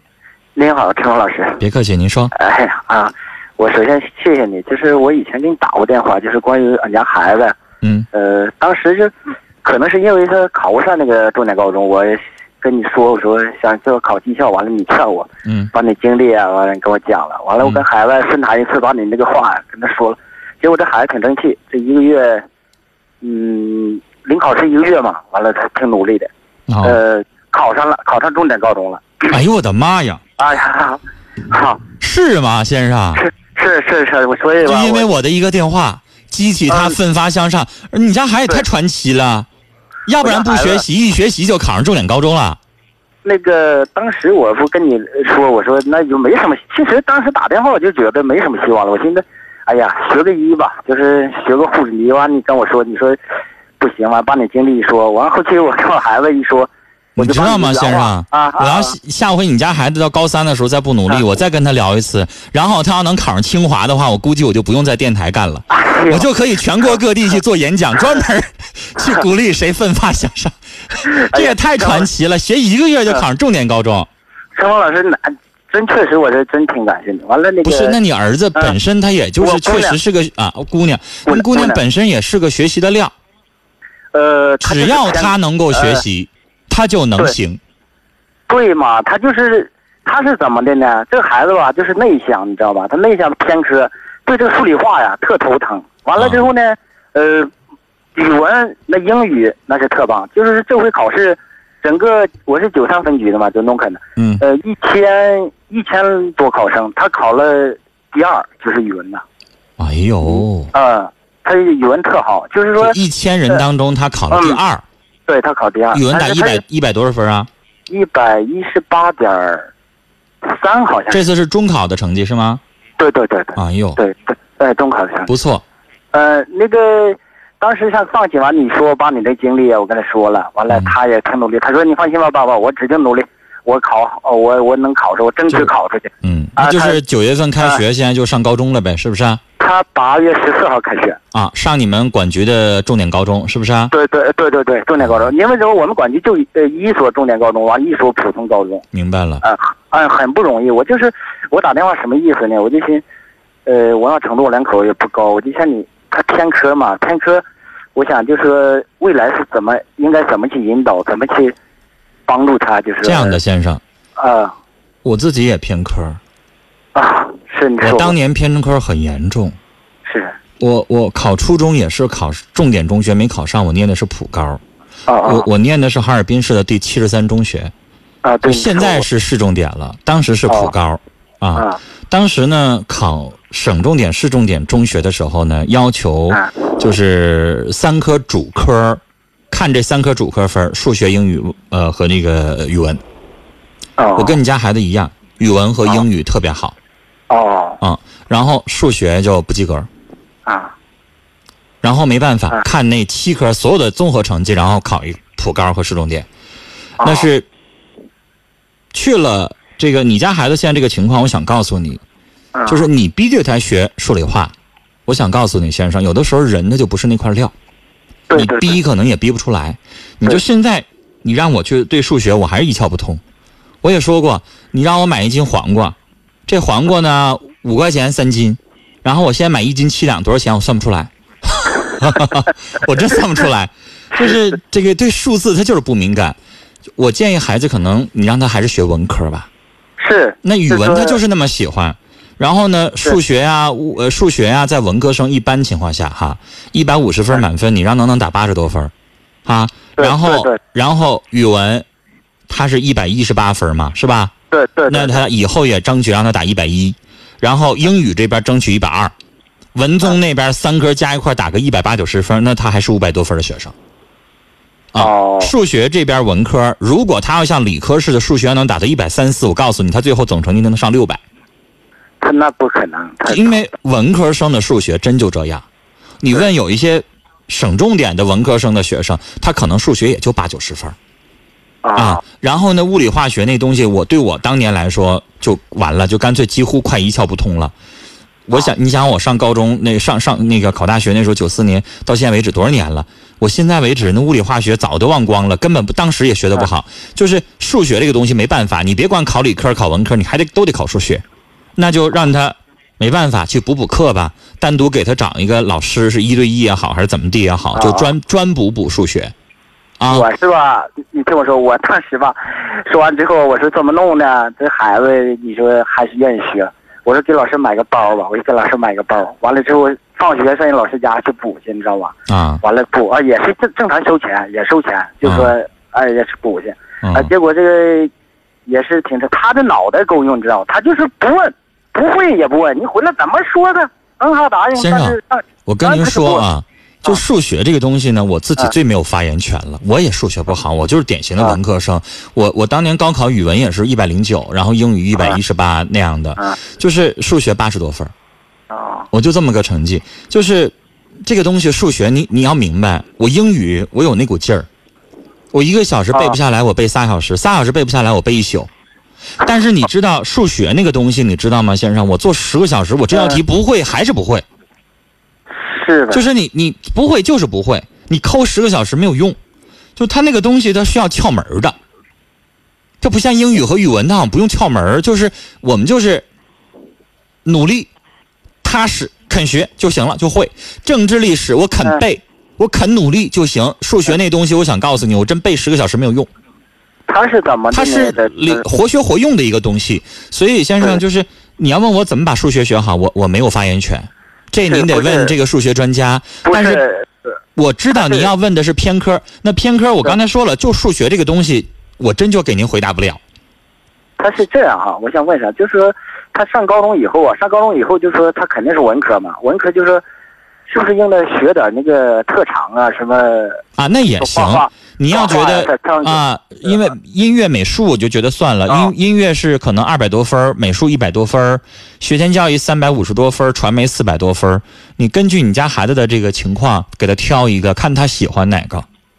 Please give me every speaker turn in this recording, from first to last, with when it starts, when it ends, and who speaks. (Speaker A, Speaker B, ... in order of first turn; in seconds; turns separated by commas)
Speaker A: 0.6-1.6, Speaker B: 1.6-2.3, Speaker A: 2.3-7.5, Speaker B: 7.8-8.1, Speaker A: 8.1-9.1, Speaker A: 9.6-22.4, Speaker B: 15.5-15.7, Speaker A: 23.2-26.3, Speaker B: 26.7-27.0, Speaker A: 26.8-29.3, Speaker B: 29.3-30.2, Speaker A: 30.4-31.8, Speaker B: 32.0-33.2, Speaker A: 33.2-35.1, Speaker B: 34.6-39.5, Speaker A: 36.7-37.0, Speaker B: 40.1-42.6, Speaker A: 40.2-40.8, Speaker A: 43.2-53.2, Speaker A: 53.8-59.0, Speaker B: 57.2-74.1, Speaker A: 65.7-67.0, Speaker A: 71.3-72.1, Speaker A: 74.5-78.0, Speaker B: 77.6-83.1, Speaker A: 79.4-80.0, Speaker A: 81.2-81.8, Speaker A: 84.1-86.0, Speaker B: 84.6-87.6, Speaker A: 88.5-97.5, Speaker B: 96.2-96.4, Speaker A: 98.1-109.2, Speaker B: 104.2-104.4, Speaker B: 109.8-110.7, Speaker A: 110.2-113.0, Speaker B: 112.8-114.8, Speaker A: 114.3-114.6, Speaker A: 115.3-116.6, Speaker B: 115.9-117.5, Speaker A: 117.9-119.7, Speaker A: 120.4-121.2, Speaker B: 121.1-122.6, Speaker A: 123.0-125.3, Speaker B: 123.5-124.0, Speaker B: 125.3-125.6, Speaker A: 126.1-137.0, Speaker B: 130.7-130.9, Speaker B: 136.2-139.4, Speaker A: 139.6-141.2, Speaker B: 141.3-143.9, Speaker A: 143.9-148.8, Speaker B: 145.0-145.3, Speaker B: 148.9-149.4, Speaker A: 149.4-153.0, Speaker A: 153.7-157.4, Speaker A: 157.9-161.5, Speaker A: 162.3-163.4, Speaker B: 163.0-163.8, Speaker A: 164.2-164.5, Speaker B: 165.0-166.2, Speaker A: 166.9-168.2, Speaker B: 167.8-169.6, Speaker A: 170.1-170.3, Speaker B: 170.6-174.6, Speaker A: 175.1-175.5, Speaker B: 175.2-177.7, Speaker A: 178.2-179.1, Speaker B: 178.4-193.0, Speaker A: 194.0-194.4, Speaker B: 194.2-196.8, Speaker A: 197.3-197.8, Speaker B: 197.8-199.9, Speaker A: 200.4-200.7, Speaker B: 201.8-206.3, Speaker A: 207.0-207.3, Speaker B: 207.0-207.4, Speaker B: 208.9-212.0, Speaker A: 212.5-212.9, Speaker B: 212.7-214.5, Speaker B: 215.1-217.5, Speaker A: 218.3-218.8, Speaker B: 218.3-223.2, Speaker B: 223.8-225.9, Speaker B: 226.5-236.4, Speaker B: 237.0-239.5, Speaker A: 240.0-241.2, Speaker B: 240.4-248.9, Speaker B: 249.4-251.8, Speaker A: 250.0-250.6, Speaker B: 252.5-254.3, Speaker A: 254.5-255.2, Speaker B: 254.9-259.1, Speaker B: 259.8-263.8, Speaker B: 264.9-271.2, Speaker A: 264.9-265.5, Speaker A: 272.2-273.6, Speaker B: 273.3-275.6, Speaker B: 276.2-280.9, Speaker A: 281.8-282.2, Speaker B: 282.0-287.7, Speaker B: 288.5-301.2, Speaker B: 301.8-309.3, Speaker A: 307.7-308.1, Speaker B: 310.0-310.3, Speaker A: 310.1-328.1, Speaker B: 322.3-322.6, Speaker B: 325.2-325.5, Speaker B: 327.0-327.3, Speaker A: 328.7-336.4, Speaker B: 334.8-348.1, Speaker A: 348.7-349.1, Speaker B: 349.1-350.7, Speaker B: 351.2-354.7, Speaker B: 355.5-358.7, Speaker B: 359.4-364.4, Speaker A: 363.1-363.4, Speaker A: 365.6-366.2, Speaker B: 366.1-369.4, Speaker B: 370.0-371.8, Speaker B: 373.0-376.2, Speaker B: 377.4-377.9, Speaker B: 378.6-386.3, Speaker A: 387.1-388.6, Speaker B: 387.7-396.8, Speaker A: 394.6-395.3, Speaker A: 396.4-397.1, Speaker B: 397.6-403.2, Speaker A: 397.9-398.3, Speaker A: 404.2-410.0, Speaker A: 410.7-413.6, Speaker B: 413.8-428.9, Speaker A: 414.2-416.9